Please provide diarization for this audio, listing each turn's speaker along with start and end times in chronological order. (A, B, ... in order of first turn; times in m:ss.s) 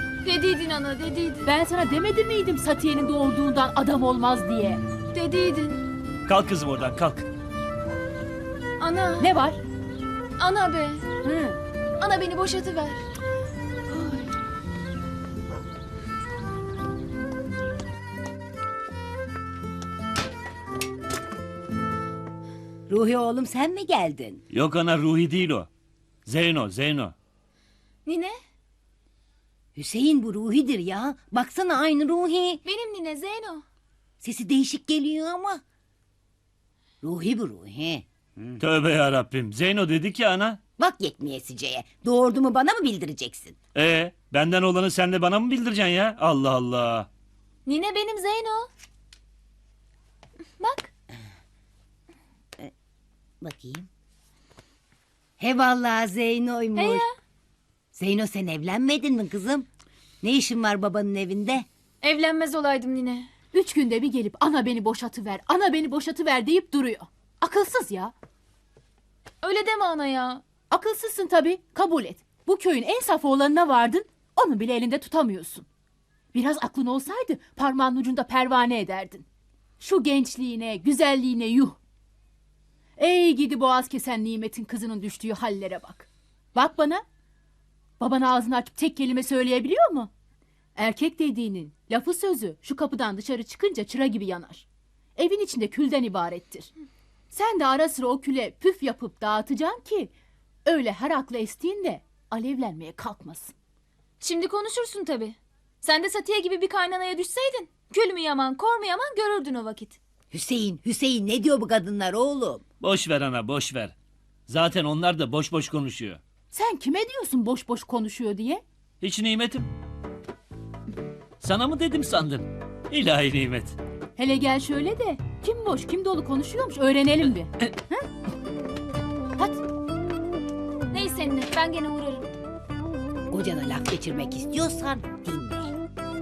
0:00.2-0:01.5 A
0:01.4-0:04.8 B
0:05.1-0:05.8 A
0:06.3-0:07.3 C
0:08.8-0:09.3 A
0:09.2-0:09.6 B
0:10.4-0:11.1 A
0:11.2-0:11.6 B
0:12.0-0:13.0 A
0:22.9-0:24.4 D
0:24.5-0:25.7 C
0:26.3-0:27.2 C
0:28.1-0:28.4 A
0:29.8-0:32.6 D
0:32.6-0:33.6 A
0:34.2-0:35.6 D
0:37.0-0:38.6 D
0:38.6-0:40.6 C
0:40.8-0:43.6 D
0:43.8-0:47.1 C
0:47.7-0:48.7 A
0:50.6-0:50.9 A
0:53.4-0:53.9 D
0:55.4-0:57.0 D
0:56.8-0:57.1 A
0:57.9-0:59.7 D
1:00.2-1:01.7 D
1:02.0-1:03.3 A
1:03.5-1:08.1 B
1:09.4-1:10.4 A
1:10.7-1:15.7 B
1:16.3-1:19.2 B
1:19.8-1:21.8 B
1:23.0-1:27.0 B
1:28.0-1:30.1 B
1:30.8-1:36.7 B
1:37.3-1:40.1 B
1:40.7-1:43.5 B
1:44.2-1:50.0 A
1:50.3-1:52.6 D
1:52.8-1:54.0 C
1:54.5-1:56.2 C
1:56.5-1:58.6 B
1:59.0-1:59.7 C
2:01.4-2:03.8 C
2:04.2-2:08.0 B
2:10.9-2:12.3 A
2:13.3-2:15.8 D